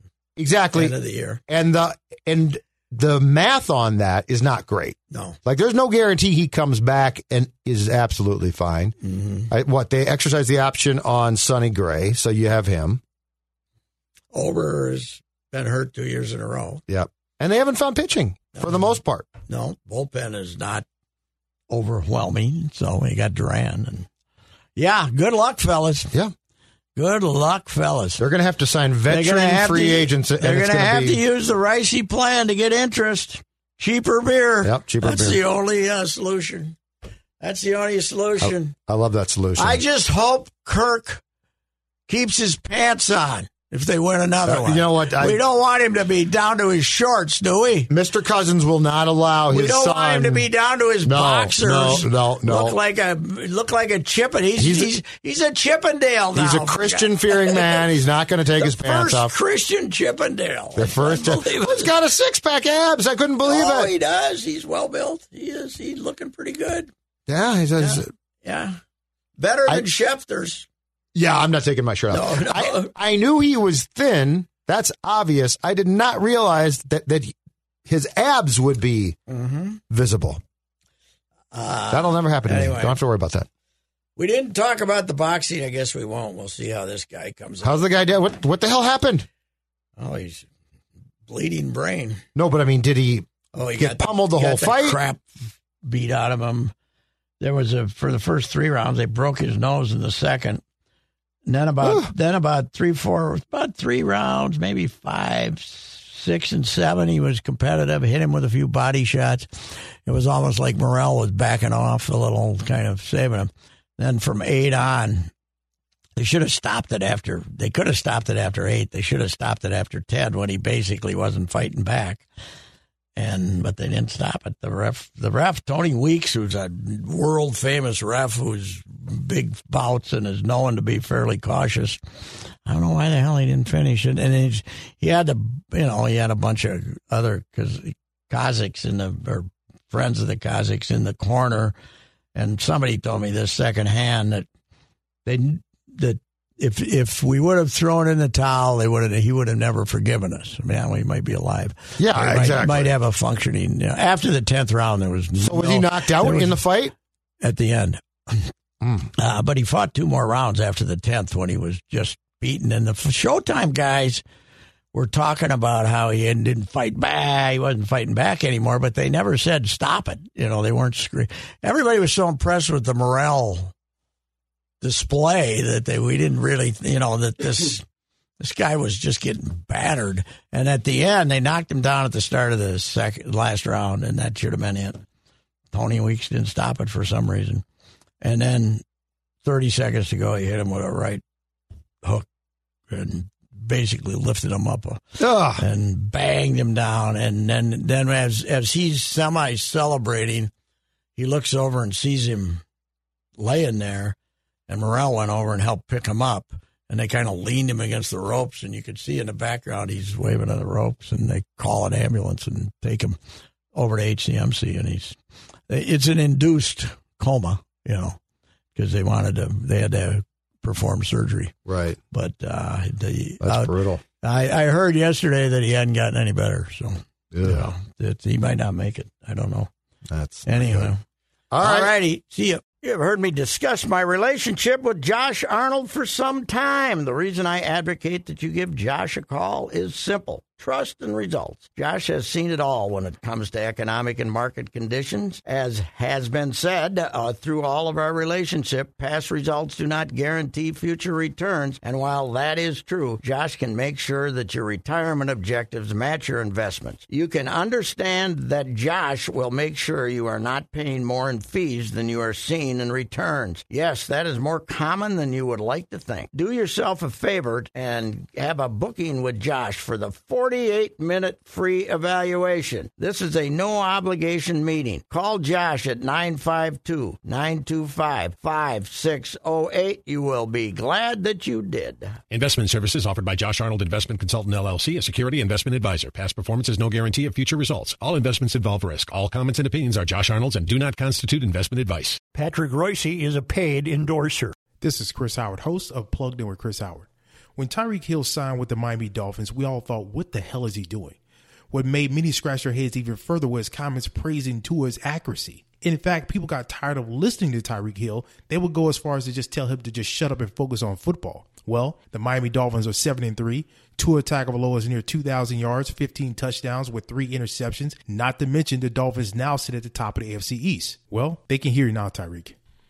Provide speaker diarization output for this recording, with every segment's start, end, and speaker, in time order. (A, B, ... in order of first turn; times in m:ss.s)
0:00.4-0:01.0 A
0:00.8-0:01.4 B
0:01.5-0:09.0 A
0:05.1-0:05.4 B
0:09.0-0:09.5 B
0:09.5-0:13.0 A
0:14.3-0:16.8 B
0:16.9-0:19.3 A
0:19.5-0:20.8 B
0:21.7-0:24.1 B
0:24.8-0:26.1 B
0:27.0-0:28.2 B
0:28.2-0:31.2 A
0:29.1-0:36.8 B
0:34.6-0:35.4 A
0:37.4-0:38.8 B
0:38.4-0:39.8 A
0:39.6-0:41.2 B
0:42.1-0:47.9 B
0:44.4-0:45.4 A
0:47.9-0:50.5 A
0:49.5-0:57.9 B
0:51.0-0:52.8 A
0:54.6-0:54.9 A
0:56.4-0:59.3 A
0:58.6-1:01.9 B
1:00.8-1:03.9 A
1:03.4-1:06.9 B
1:07.3-1:08.1 A
1:07.8-1:08.8 B
1:09.4-1:10.7 B
1:11.2-1:17.3 A
1:12.1-1:12.9 B
1:17.9-1:19.2 A
1:19.3-1:19.8 B
1:19.9-1:20.4 A
1:21.5-1:23.0 B
1:21.9-1:23.5 A
1:24.2-1:27.8 B
1:27.6-1:29.3 A
1:30.0-1:30.5 B
1:31.3-1:32.2 B
1:32.4-1:35.0 A
1:33.5-1:36.7 B
1:37.4-1:40.6 B
1:41.5-1:49.5 B
1:41.8-1:42.1 A
1:50.1-1:55.3 B
1:56.2-2:02.3 B
2:03.2-2:12.0 B
2:12.6-2:21.7 B
2:22.4-2:24.5 B
2:25.3-2:36.6 B
2:32.0-2:32.9 A
2:35.4-2:36.9 A
2:37.4-2:38.5 B
2:38.8-2:39.1 A
2:39.2-2:44.2 B
2:44.9-2:53.7 B
2:54.8-2:57.8 B
2:58.4-3:05.0 B
3:05.7-3:07.6 B
3:08.2-3:08.8 B
3:09.4-3:11.2 B
3:12.9-3:20.5 B
3:15.2-3:15.6 A
3:21.2-3:22.6 B
3:23.4-3:24.2 B
3:24.7-3:33.2 B
3:33.7-3:35.2 B
3:35.7-3:38.2 B
3:38.8-3:41.5 B
3:41.7-3:42.0 A
3:42.1-3:49.7 B
3:43.4-3:44.0 A
3:47.3-3:47.7 A
3:50.1-3:50.9 A
3:50.5-3:51.0 B
3:51.5-3:51.9 A
3:51.6-4:42.2 B
4:42.3-4:52.2 C
4:52.3-4:54.6 D
4:54.8-5:01.2 E
5:01.7-5:22.6 E